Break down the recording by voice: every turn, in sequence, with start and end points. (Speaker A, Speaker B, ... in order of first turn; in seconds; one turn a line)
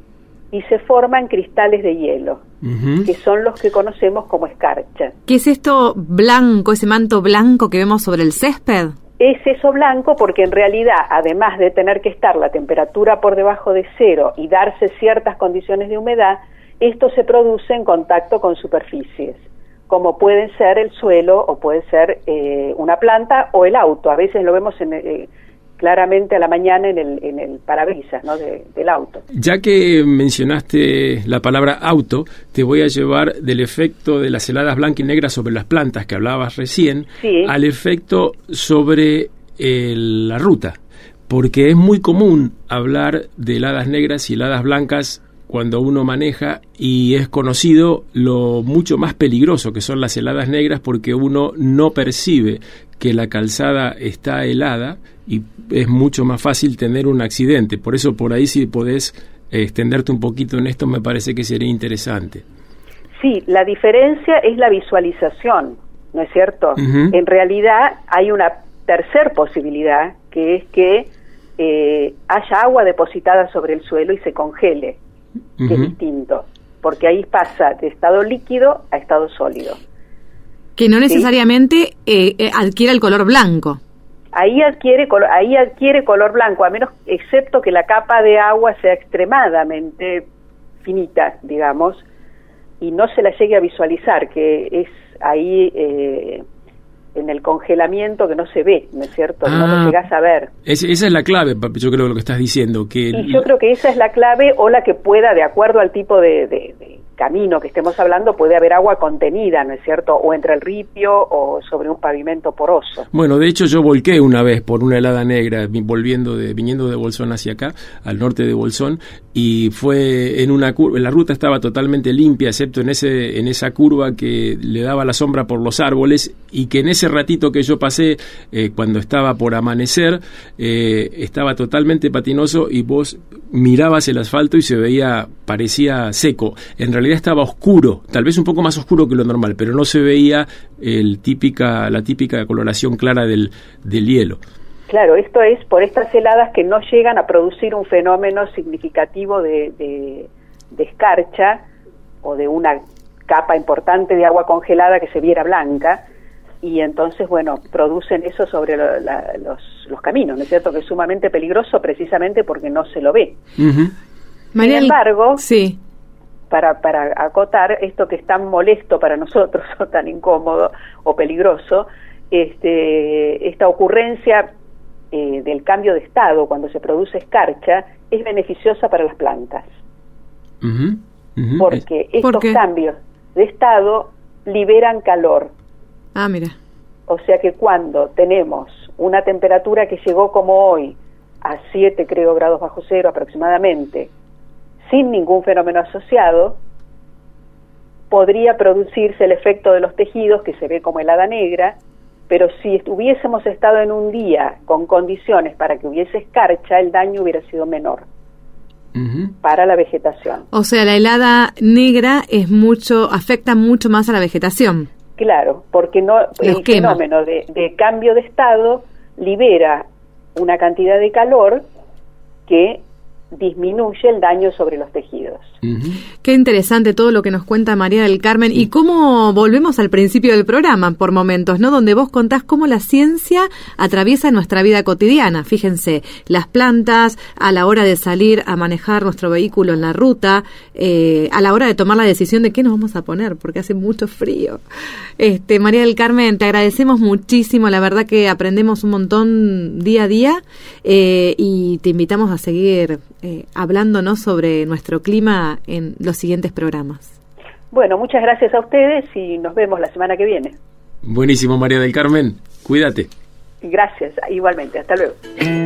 Speaker A: 0.5-2.4
Speaker B: 2.6-3.1
Speaker A: 3.0-5.1
Speaker C: 5.3-8.9
Speaker A: 9.2-29.2
Speaker B: 29.3-40.8
Speaker A: 37.2-37.5
Speaker B: 41.3-62.4
Speaker A: 63.2-75.0
Speaker B: 66.8-67.1
Speaker B: 75.6-75.9
Speaker A: 75.7-79.8
Speaker C: 80.8-83.8
Speaker A: 84.3-90.3
Speaker A: 90.8-92.0
Speaker A: 92.8-96.4
Speaker A: 97.1-100.5
Speaker B: 99.5-100.0
Speaker B: 100.6-103.5
Speaker A: 103.1-113.1
Speaker B: 113.1-144.4
Speaker A: 144.9-151.6
Speaker A: 152.2-156.0
Speaker A: 156.6-163.4
Speaker B: 163.6-163.9
Speaker C: 164.5-165.8
Speaker A: 164.6-165.4
Speaker A: 166.5-174.5
Speaker A: 175.1-179.7
Speaker B: 180.6-181.8
Speaker A: 181.6-185.5
Speaker C: 182.2-182.6
Speaker C: 186.2-186.6
Speaker A: 187.1-194.1
Speaker A: 194.9-196.6
Speaker A: 198.1-201.8
Speaker A: 202.3-208.1
Speaker B: 208.9-209.3
Speaker A: 209.4-210.4
Speaker C: 210.5-214.9
Speaker A: 215.2-221.7
Speaker C: 216.4-217.0
Speaker A: 222.5-225.5
Speaker B: 225.6-226.0
Speaker C: 226.2-244.6
Speaker C: 245.2-257.1
Speaker A: 257.7-260.6
Speaker B: 261.0-263.1
Speaker A: 263.6-265.2